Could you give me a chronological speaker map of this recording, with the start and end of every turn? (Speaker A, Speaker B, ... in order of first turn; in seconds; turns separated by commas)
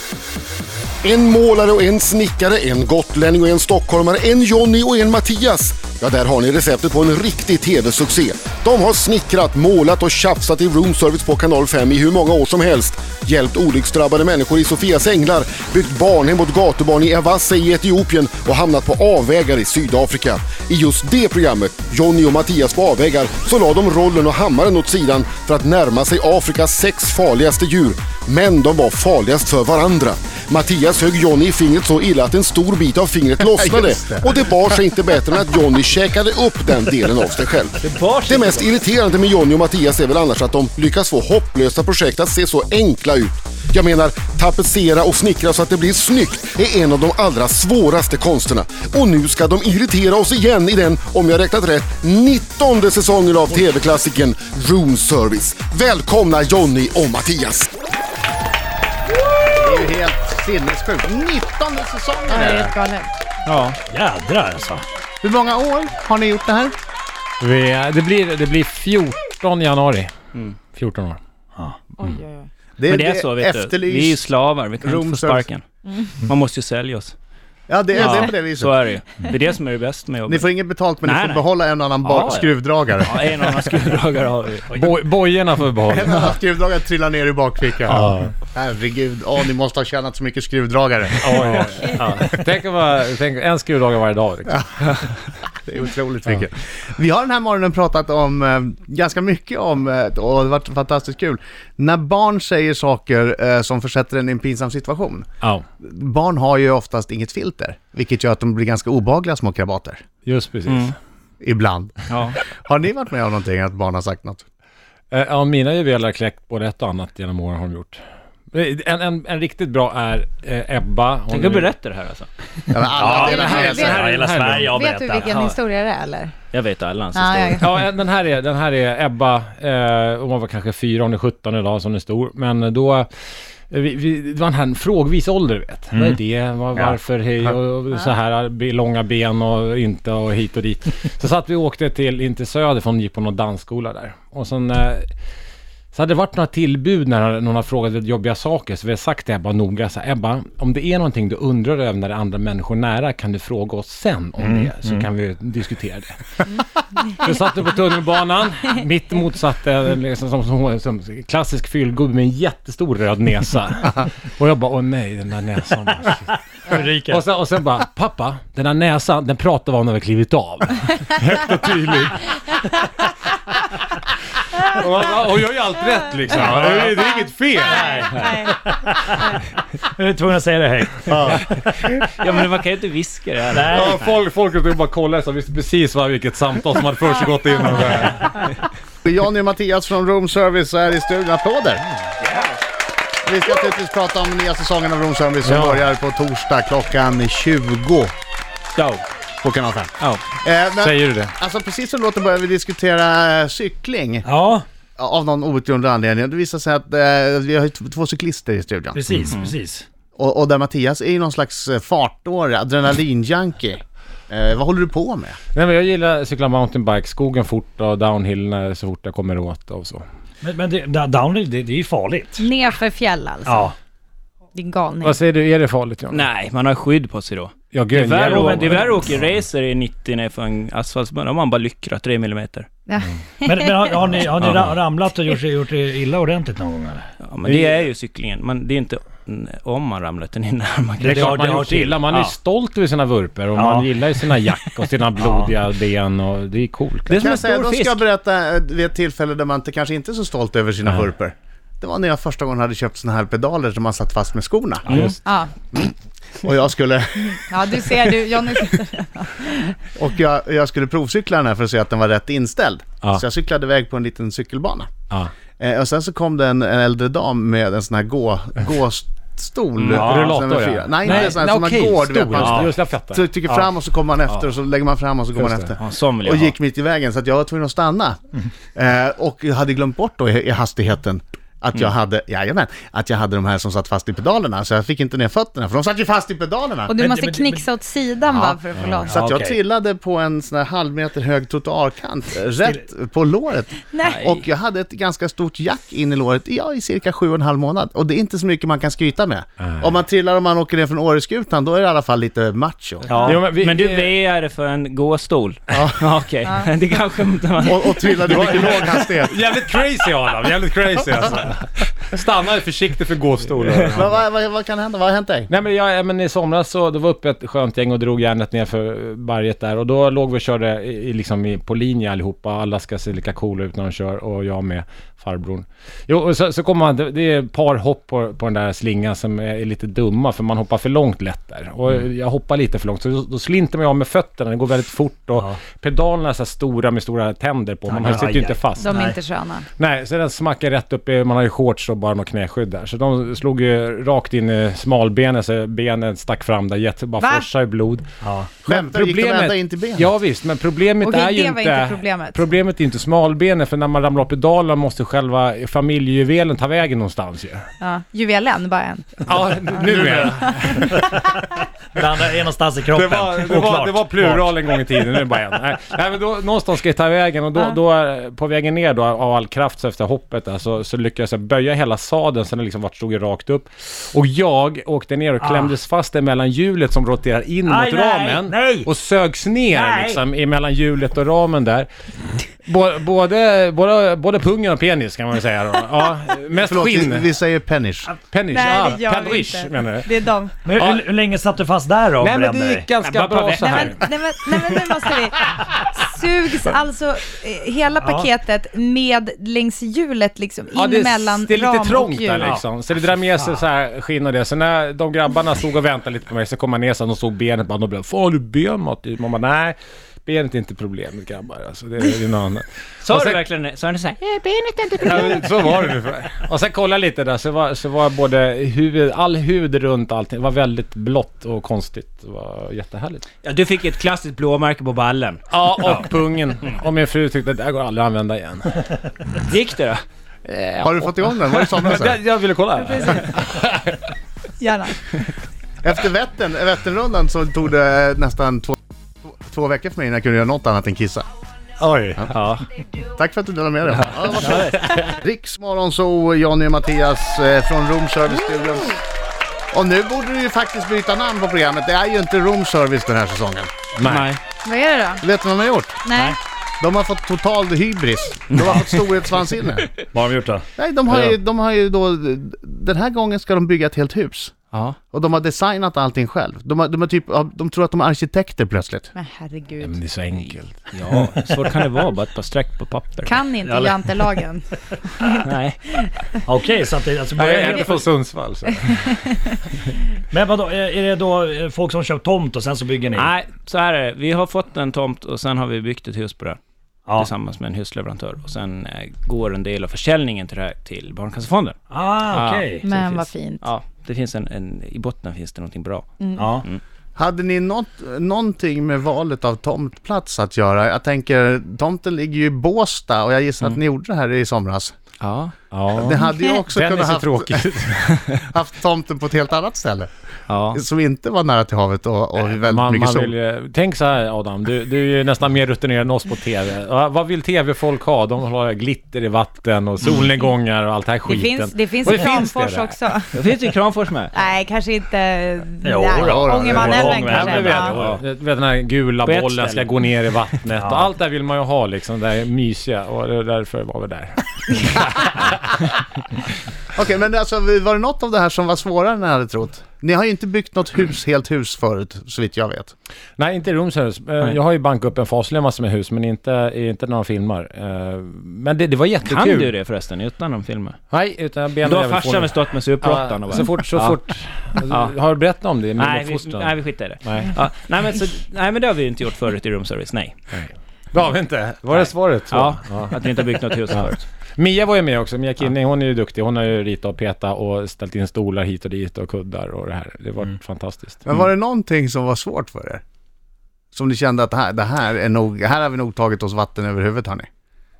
Speaker A: 1.0-57.7, Speaker B: 33.5-34.3, Speaker C: 37.8-38.7, Speaker B: 59.5-62.7, Speaker D: 62.3-63.1, Speaker C: 63.5-63.8, Speaker E: 63.9-64.8, Speaker B: 65.2-66.7, Speaker F: 67.4-70.1, Speaker F: 70.7-71.2, Speaker D: 72.0-72.5, Speaker B: 72.8-74.3, Speaker C: 72.9-75.6, Speaker B: 74.8-75.5, Speaker C: 76.2-77.2, Speaker B: 77.7-78.8, Speaker D: 77.9-78.3, Speaker C: 78.0-81.5, Speaker B: 80.3-83.3, Speaker C: 82.0-84.7, Speaker F: 84.7-86.4, Speaker B: 85.9-91.2, Speaker F: 87.9-88.3, Speaker F: 91.2-94.7, Speaker B: 95.6-105.3, Speaker B: 105.8-110.0, Speaker F: 110.2-110.9, Speaker C: 110.7-110.9, Speaker B: 111.4-111.9, Speaker C: 112.1-112.4, Speaker B: 112.5-114.4, Speaker F: 115.1-118.0, Speaker F: 118.5-121.7, Speaker C: 121.3-122.3, Speaker B: 122.7-123.9, Speaker E: 122.8-125.4, Speaker D: 123.1-124.1, Speaker F: 123.3-124.8, Speaker D: 124.6-126.3, Speaker C: 125.2-125.6, Speaker C: 126.5-127.8, Speaker D: 127.1-127.7, Speaker F: 127.5-133.1, Speaker F: 133.7-145.1, Speaker E: 135.9-137.0, Speaker F: 145.9-172.8, Speaker E: 154.4-155.1, Speaker E: 166.7-167.2, Speaker F: 174.6-179.2, Speaker E: 176.4-177.0, Speaker D: 177.7-178.6, Speaker E: 178.7-179.1, Speaker E: 180.0-181.5, Speaker F: 181.2-182.0, Speaker C: 182.2-184.2, Speaker E: 183.5-184.0, Speaker F: 183.7-188.5, Speaker B: 189.1-191.8, Speaker C: 192.2-192.6, Speaker B: 193.2-198.1, Speaker F: 195.4-195.8, Speaker C: 198.8-199.0, Speaker B: 199.4-199.9, Speaker B: 200.4-204.3, Speaker F: 200.8-201.3, Speaker E: 204.2-204.7, Speaker B: 205.0-209.0, Speaker E: 208.9-209.9, Speaker B: 210.2-215.4, Speaker F: 215.6-220.0, Speaker E: 220.4-222.5, Speaker D: 222.4-223.7, Speaker E: 223.5-223.8, Speaker D: 224.6-225.2, Speaker F: 225.0-226.2, Speaker C: 226.1-232.7, Speaker F: 227.7-228.8, Speaker E: 228.2-229.1, Speaker D: 232.9-233.9, Speaker E: 233.4-237.0, Speaker C: 234.4-234.8, Speaker C: 237.2-241.5, Speaker F: 237.4-237.8, Speaker E: 241.0-242.2, Speaker F: 241.1-247.3, Speaker E: 243.5-244.0, Speaker E: 245.2-245.5, Speaker C: 247.1-248.1, Speaker B: 247.2-254.9, Speaker F: 254.9-255.2, Speaker D: 255.2-255.5, Speaker B: 255.7-258.0, Speaker D: 257.3-259.8, Speaker B: 260.0-264.9, Speaker B: 265.6-278.2, Speaker C: 269.8-270.1, Speaker E: 269.9-270.3, Speaker F: 270.0-273.7, Speaker C: 274.3-274.5, Speaker F: 275.4-275.7, Speaker C: 275.8-276.6, Speaker B: 278.7-287.0, Speaker D: 286.9-289.3, Speaker E: 286.9-287.6, Speaker F: 288.8-289.1, Speaker B: 289.1-303.1, Speaker E: 289.1-289.6, Speaker D: 293.9-294.3, Speaker C: 294.0-294.4, Speaker F: 299.6-299.9, Speaker E: 303.1-303.4, Speaker C: 303.1-308.3, Speaker D: 303.1-303.4, Speaker F: 303.2-304.1, Speaker B: 307.6-309.4, Speaker F: 308.2-314.2, Speaker B: 313.9-315.5, Speaker F: 315.5-339.1, Speaker E: 337.9-339.2, Speaker D: 338.8-339.7, Speaker F: 339.8-348.1, Speaker D: 347.2-347.5, Speaker E: 348.2-348.6, Speaker B: 348.7-350.1, Speaker F: 348.7-357.6, Speaker D: 351.0-352.4, Speaker D: 357.8-359.3, Speaker F: 359.2-361.4, Speaker E: 359.8-361.2, Speaker D: 360.4-361.1, Speaker E: 361.9-364.6, Speaker F: 362.9-381.9, Speaker E: 375.4-375.8, Speaker E: 377.6-378.9, Speaker E: 379.7-380.2, Speaker F: 382.6-387.3, Speaker B: 386.7-388.1, Speaker F: 388.3-390.1, Speaker D: 388.5-390.5, Speaker E: 390.6-392.9, Speaker F: 390.7-391.1, Speaker F: 392.2-394.0, Speaker C: 393.0-394.0, Speaker D: 393.6-402.6, Speaker E: 398.0-398.3, Speaker F: 400.8-413.4, Speaker C: 413.0-415.5, Speaker F: 415.0-423.2, Speaker C: 423.4-425.5, Speaker F: 425.5-428.8, Speaker C: 429.4-430.0, Speaker F: 430.5-433.9, Speaker B: 430.8-432.2, Speaker D: 432.8-433.2, Speaker D: 434.6-435.0, Speaker B: 435.8-438.8, Speaker B: 439.3-441.3, Speaker F: 441.8-442.3, Speaker C: 442.3-442.7, Speaker B: 443.1-444.6, Speaker C: 443.9-444.8, Speaker B: 445.1-449.0, Speaker B: 449.7-453.7, Speaker F: 454.0-454.2, Speaker C: 454.0-454.4, Speaker D: 454.5-455.2, Speaker B: 455.2-456.0, Speaker D: 456.1-456.4, Speaker B: 456.8-459.9, Speaker C: 458.6-458.8, Speaker E: 460.1-461.3, Speaker B: 460.8-464.5, Speaker C: 464.7-465.0, Speaker B: 465.1-469.1, Speaker D: 469.1-470.0, Speaker F: 469.8-470.8, Speaker C: 470.9-473.4, Speaker D: 473.3-476.4, Speaker E: 473.6-474.5, Speaker C: 475.4-475.8, Speaker E: 476.5-478.1, Speaker F: 477.3-479.2, Speaker D: 478.7-479.6, Speaker E: 480.3-483.3, Speaker C: 483.1-486.6, Speaker C: 487.1-496.8, Speaker E: 491.9-492.9, Speaker D: 492.8-493.7, Speaker D: 496.2-496.6, Speaker E: 496.4-496.6, Speaker B: 497.2-504.9, Speaker C: 505.2-505.5, Speaker F: 505.7-508.3, Speaker B: 506.0-507.6, Speaker D: 506.2-506.6, Speaker B: 508.5-510.1, Speaker C: 510.5-510.8, Speaker B: 510.7-513.3, Speaker F: 512.4-523.0, Speaker D: 521.2-523.4, Speaker C: 523.3-524.3, Speaker D: 524.3-528.0, Speaker E: 525.8-528.1, Speaker B: 526.3-526.9, Speaker F: 527.4-535.8, Speaker C: 527.9-528.2, Speaker C: 529.2-530.1, Speaker E: 530.8-531.1, Speaker B: 537.0-542.9, Speaker F: 543.4-549.7, Speaker C: 549.2-551.0, Speaker F: 551.1-557.5, Speaker C: 551.8-554.2, Speaker C: 554.9-555.1, Speaker C: 556.0-560.4, Speaker F: 560.5-563.1, Speaker C: 561.9-564.3, Speaker F: 564.6-571.3, Speaker B: 571.3-573.0, Speaker B: 573.9-577.5